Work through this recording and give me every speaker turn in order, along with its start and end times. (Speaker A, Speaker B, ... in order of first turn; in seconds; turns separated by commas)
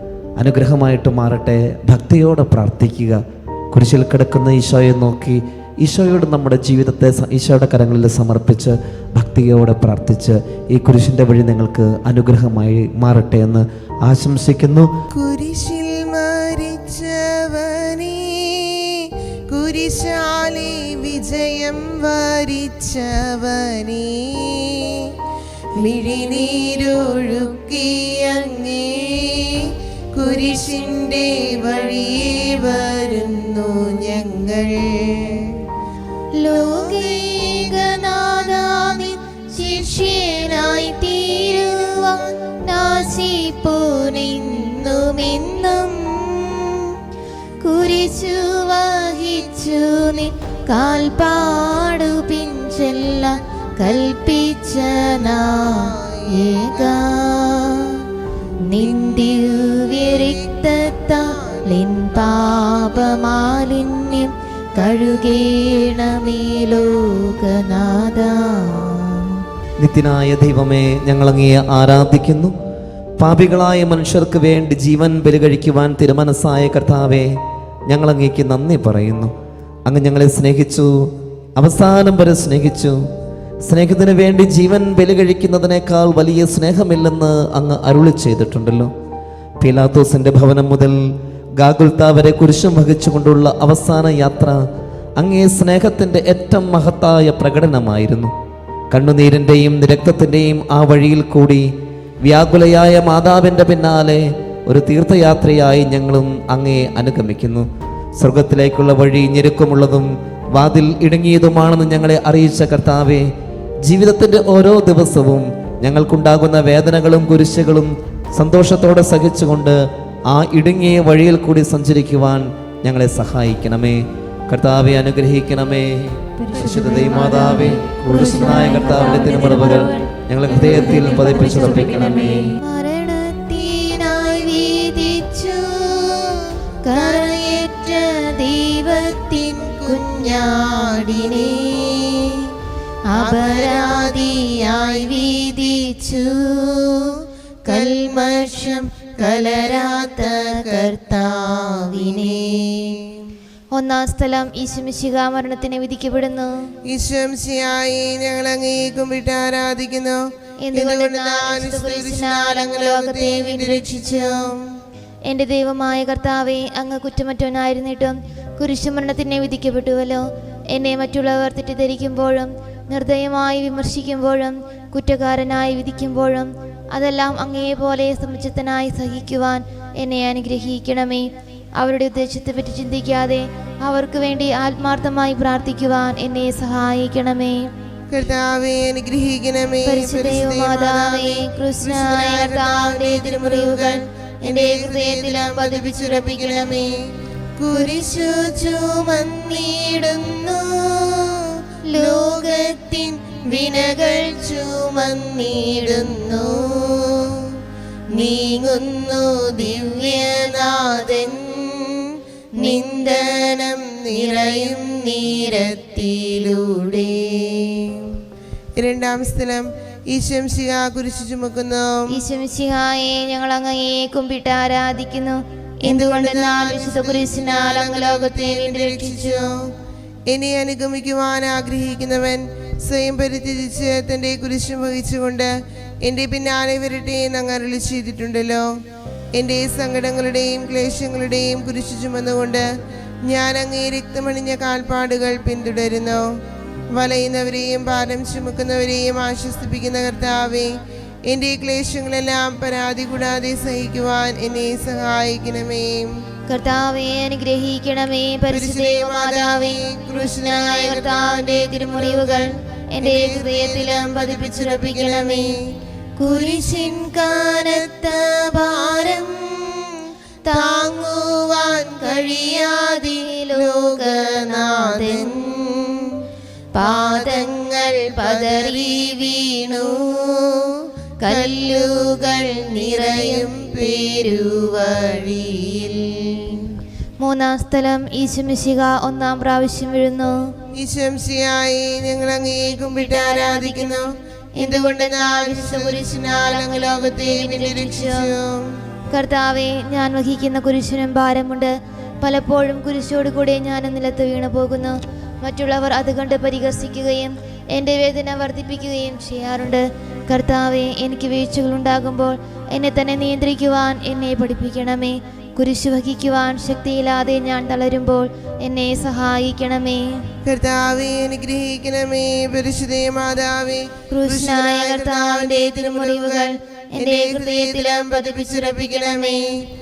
Speaker A: 0.4-3.2, Speaker A: 3.7-14.9, Speaker B: 15.1-18.9, Speaker B: 19.5-25.1, Speaker B: 25.8-35.5, Speaker C: 36.4-46.6, Speaker C: 47.6-58.0, Speaker B: 55.8-56.6, Speaker C: 58.7-69.2, Speaker B: 58.8-60.7, Speaker B: 61.2-61.6, Speaker A: 69.8-72.5, Speaker A: 73.2-77.3, Speaker A: 77.9-79.3, Speaker A: 79.8-80.9, Speaker A: 81.6-83.0, Speaker A: 83.7-88.9, Speaker A: 89.6-91.0, Speaker A: 91.6-94.6, Speaker A: 95.2-98.3, Speaker A: 98.9-101.7, Speaker A: 102.2-107.7, Speaker A: 108.2-113.3, Speaker A: 113.8-132.6, Speaker C: 128.5-130.1, Speaker C: 132.6-136.2, Speaker C: 136.8-141.4, Speaker B: 136.9-137.5, Speaker B: 139.8-142.2, Speaker C: 143.1-146.9, Speaker B: 143.1-145.3, Speaker C: 147.7-151.3, Speaker B: 147.7-152.8, Speaker C: 151.9-152.3, Speaker C: 153.7-156.5, Speaker B: 156.9-160.2, Speaker C: 160.6-163.8, Speaker B: 160.7-164.6, Speaker C: 165.3-187.6, Speaker B: 188.1-196.9, Speaker C: 189.8-196.6, Speaker B: 197.6-201.3, Speaker C: 197.9-198.8, Speaker C: 201.9-206.2, Speaker B: 201.9-202.6, Speaker B: 203.3-207.2, Speaker B: 208.1-212.0, Speaker C: 208.2-208.7, Speaker B: 212.6-217.7, Speaker C: 212.6-213.0, Speaker B: 218.8-222.2, Speaker C: 222.1-229.4, Speaker B: 225.8-229.5, Speaker B: 230.3-235.5, Speaker B: 236.0-238.7, Speaker B: 239.3-242.7, Speaker B: 243.2-246.2, Speaker B: 246.9-250.7, Speaker B: 251.3-256.1, Speaker C: 256.5-265.5, Speaker B: 258.5-262.5, Speaker B: 263.0-265.6, Speaker C: 266.2-269.1, Speaker B: 266.3-269.3, Speaker C: 270.4-270.9, Speaker B: 270.5-276.1, Speaker C: 272.9-275.4, Speaker C: 276.7-279.4, Speaker B: 276.8-280.6, Speaker C: 281.2-283.5, Speaker B: 281.2-286.1, Speaker C: 287.2-290.4, Speaker B: 290.8-298.6, Speaker C: 293.0-294.0, Speaker C: 294.6-296.2, Speaker C: 297.2-298.3, Speaker C: 299.1-320.2, Speaker B: 320.4-329.4, Speaker C: 324.1-328.2